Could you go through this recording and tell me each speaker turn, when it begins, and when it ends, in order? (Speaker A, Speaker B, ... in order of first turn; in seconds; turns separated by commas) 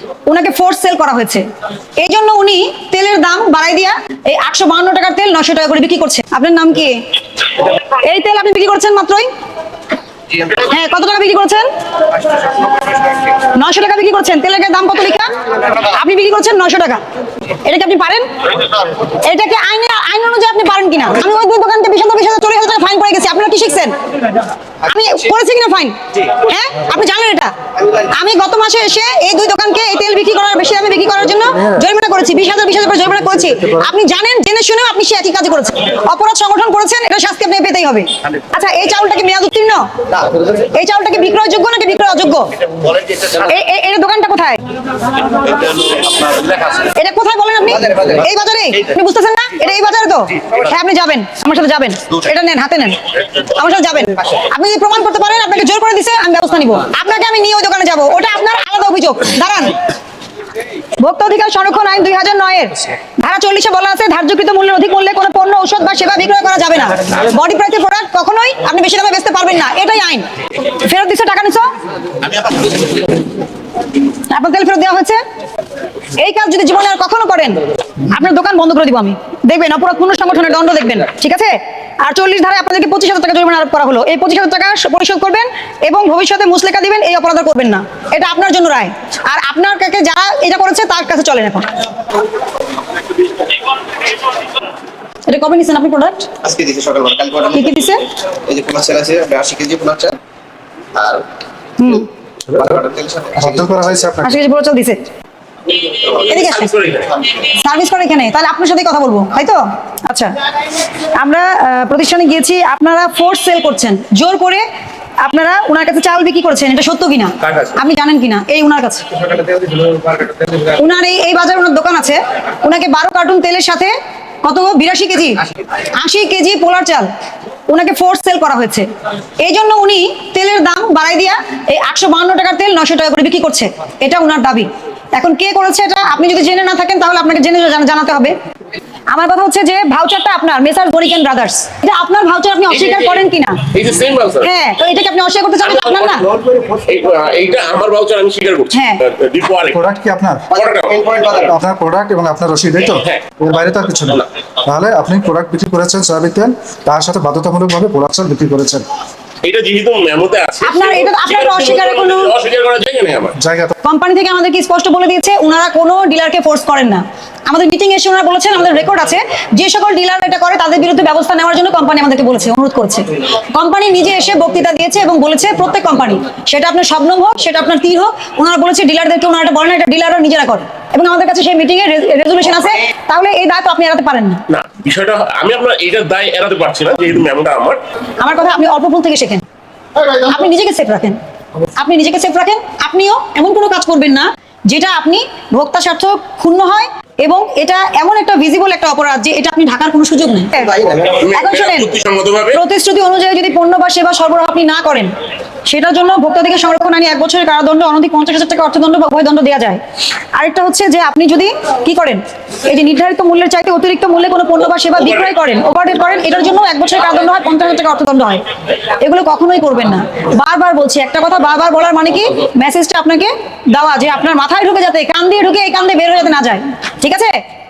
Speaker A: 0.3-1.4, Speaker A: 2.0-7.0, Speaker A: 7.8-9.3, Speaker A: 10.5-11.7, Speaker B: 12.6-12.9, Speaker A: 13.4-18.3, Speaker A: 19.0-24.0, Speaker A: 24.8-39.9, Speaker A: 40.5-42.5, Speaker A: 43.2-44.6, Speaker C: 45.9-46.8, Speaker A: 46.8-59.8, Speaker B: 47.9-48.1, Speaker A: 61.0-71.7, Speaker A: 74.3-75.2, Speaker A: 76.2-91.7, Speaker A: 95.3-96.3, Speaker B: 96.4-97.8, Speaker A: 97.5-98.0, Speaker B: 98.4-100.2, Speaker B: 101.0-101.2, Speaker A: 101.8-102.1, Speaker B: 102.6-103.8, Speaker D: 103.4-104.4, Speaker A: 104.2-105.0, Speaker C: 105.8-107.2, Speaker A: 106.3-106.7, Speaker A: 107.5-110.3, Speaker A: 111.0-114.7, Speaker A: 115.2-119.3, Speaker B: 119.4-120.4, Speaker A: 120.7-127.1, Speaker A: 127.7-128.9, Speaker A: 129.4-138.4, Speaker A: 139.1-143.7, Speaker C: 142.7-144.5, Speaker A: 144.4-146.3, Speaker C: 145.6-146.2, Speaker B: 146.3-146.8, Speaker C: 146.8-149.8, Speaker A: 148.7-149.0, Speaker D: 149.7-150.5, Speaker C: 150.5-151.0, Speaker B: 150.7-151.5, Speaker D: 151.5-158.9, Speaker C: 153.0-153.2, Speaker C: 159.4-163.4, Speaker A: 160.6-162.3, Speaker D: 163.4-163.8, Speaker A: 163.8-184.4, Speaker C: 184.5-187.8, Speaker A: 188.2-189.4, Speaker A: 190.1-191.2, Speaker A: 191.8-201.9, Speaker C: 201.0-202.6, Speaker A: 202.5-205.1, Speaker A: 205.7-209.8, Speaker A: 210.3-227.3